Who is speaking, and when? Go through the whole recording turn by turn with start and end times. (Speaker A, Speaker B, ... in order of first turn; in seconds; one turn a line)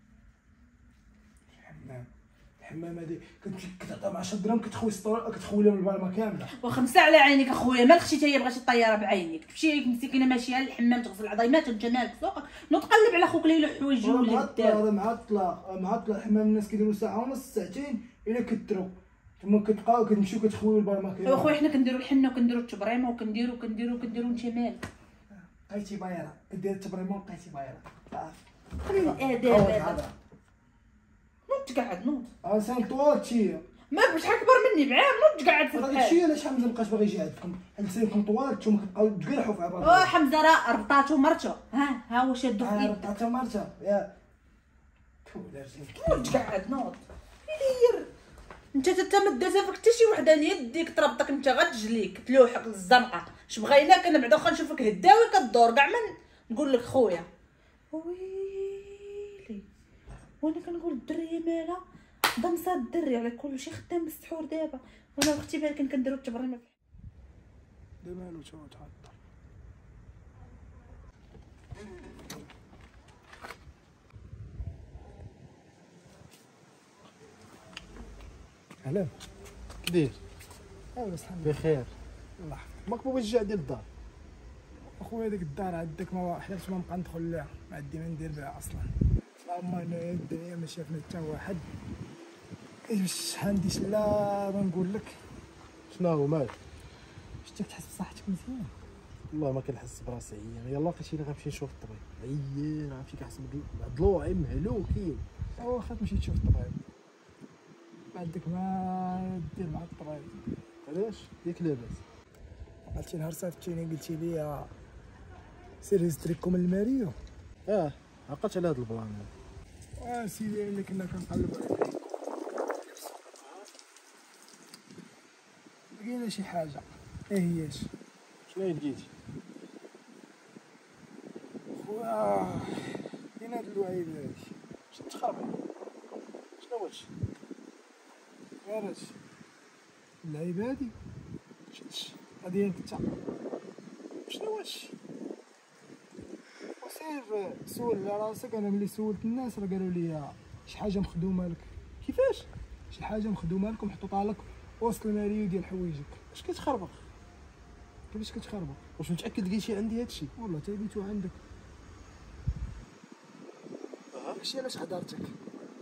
Speaker A: 1.6-6.5
Speaker B: 6.6-14.8
Speaker A: 14.0-21.6
Speaker B: 21.2-24.8
Speaker A: 25.3-30.1
Speaker B: 28.8-30.0
Speaker B: 31.5-32.3
Speaker A: 32.4-33.6
Speaker B: 33.9-36.2
Speaker A: 35.7-40.1
Speaker B: 39.8-43.0
Speaker A: 42.6-44.1
Speaker A: 45.2-46.4
Speaker B: 46.0-48.1
Speaker B: 48.7-57.3
Speaker B: 57.9-59.6
Speaker B: 60.4-61.8
Speaker B: 62.4-66.7
Speaker A: 68.0-69.2
Speaker A: 78.8-79.1
Speaker C: 79.8-80.2
Speaker A: 80.9-81.6
Speaker C: 81.4-81.9
Speaker A: 82.4-82.8
Speaker C: 82.8-83.8
Speaker A: 84.8-91.7
Speaker A: 92.8-95.2
Speaker C: 95.9-96.5
Speaker A: 97.4-98.7
Speaker C: 99.3-105.2
Speaker A: 105.6-106.8
Speaker A: 108.1-110.4
Speaker C: 110.8-112.0
Speaker A: 112.9-114.7
Speaker A: 115.8-117.2
Speaker C: 117.7-119.3
Speaker A: 120.0-122.1
Speaker A: 123.0-123.3
Speaker A: 125.9-127.9
Speaker C: 128.5-129.1
Speaker A: 131.7-134.5
Speaker C: 134.9-135.6
Speaker C: 136.6-137.1
Speaker A: 138.6-139.2
Speaker A: 140.2-140.9
Speaker C: 141.7-142.1
Speaker A: 142.1-143.1
Speaker C: 144.3-144.9
Speaker A: 146.8-151.7
Speaker C: 152.0-152.5
Speaker A: 152.9-156.2
Speaker C: 156.3-157.0
Speaker A: 158.1-158.9
Speaker C: 158.9-160.3
Speaker A: 160.4-161.4
Speaker C: 164.1-164.4
Speaker A: 164.3-165.3